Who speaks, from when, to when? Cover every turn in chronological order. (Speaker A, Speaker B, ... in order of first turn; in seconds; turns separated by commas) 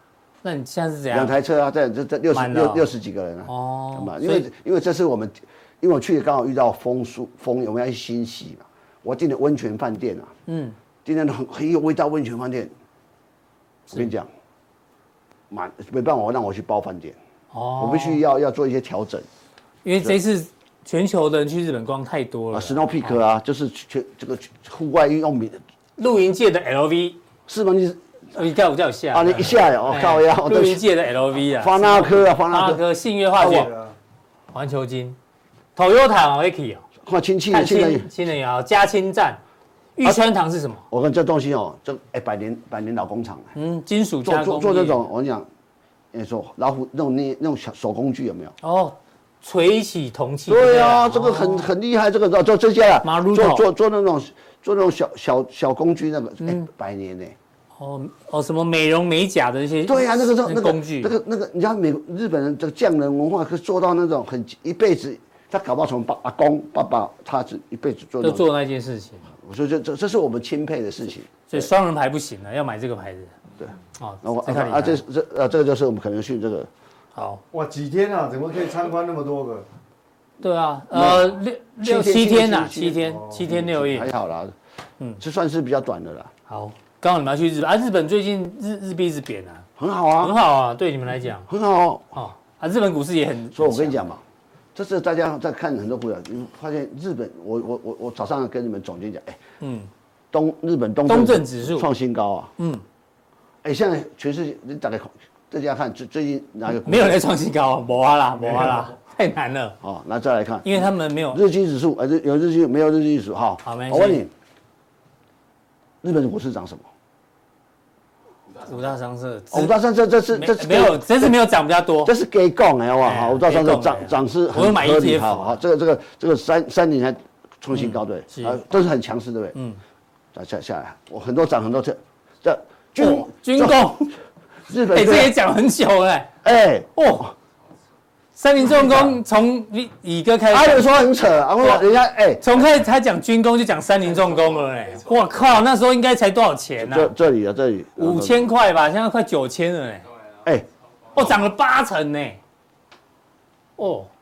Speaker A: 0.4-1.3, Speaker B: 1.1-10.3, Speaker A: 2.3-2.8, Speaker A: 3.5-4.4, Speaker A: 10.5-10.8, Speaker B: 11.0-12.7, Speaker B: 13.9-14.3, Speaker B: 15.5-17.2, Speaker A: 17.5-18.2, Speaker B: 17.8-19.3, Speaker A: 19.8-23.1, Speaker B: 22.5-25.6, Speaker A: 26.0-27.2, Speaker B: 27.5-28.0, Speaker A: 28.3-33.7, Speaker B: 29.1-30.8, Speaker B: 31.6-32.8, Speaker C: 33.4-33.9, Speaker A: 34.5-35.2, Speaker A: 35.8-36.8, Speaker B: 37.0-38.0, Speaker A: 37.5-39.4, Speaker A: 40.0-40.8, Speaker B: 40.9-43.5, Speaker A: 43.5-45.0, Speaker B: 44.2-45.5, Speaker B: 46.1-48.5, Speaker A: 48.6-51.7, Speaker B: 50.5-57.3, Speaker A: 53.0-53.6, Speaker A: 56.4-56.7, Speaker A: 57.8-61.1, Speaker B: 59.9-68.4, Speaker A: 68.2-69.3, Speaker B: 69.4-71.6, Speaker A: 71.5-73.3, Speaker A: 74.0-75.0, Speaker B: 74.2-76.7, Speaker A: 77.1-77.4, Speaker C: 77.5-79.7, Speaker A: 80.4-84.1, Speaker B: 80.9-84.5, Speaker B: 85.2-86.3, Speaker A: 86.5-89.6, Speaker B: 89.8-90.3, Speaker A: 90.2-91.5, Speaker B: 91.5-92.2, Speaker A: 92.1-94.0, Speaker B: 93.5-94.2, Speaker B: 94.7-99.4, Speaker A: 99.6-99.9, Speaker B: 100.3-102.5, Speaker A: 101.1-101.9, Speaker A: 102.6-102.8, Speaker B: 103.6-107.2, Speaker A: 106.8-109.8, Speaker B: 109.8-114.3, Speaker A: 110.6-111.4, Speaker A: 113.6-114.2, Speaker B: 116.0-116.8, Speaker A: 118.6-119.7, Speaker B: 119.5-121.3, Speaker A: 120.3-122.1, Speaker B: 122.0-129.6, Speaker A: 123.0-125.6, Speaker A: 127.7-128.6, Speaker A: 129.5-129.8, Speaker B: 130.3-134.0, Speaker A: 133.0-134.1, Speaker B: 134.7-135.3, Speaker A: 134.9-136.3, Speaker B: 136.4-137.3, Speaker A: 136.9-137.3, Speaker A: 138.3-140.9, Speaker B: 138.8-139.2, Speaker B: 140.5-142.7, Speaker A: 142.4-147.1, Speaker B: 146.8-148.5, Speaker A: 148.0-150.1, Speaker A: 151.1-152.4, Speaker A: 153.8-154.1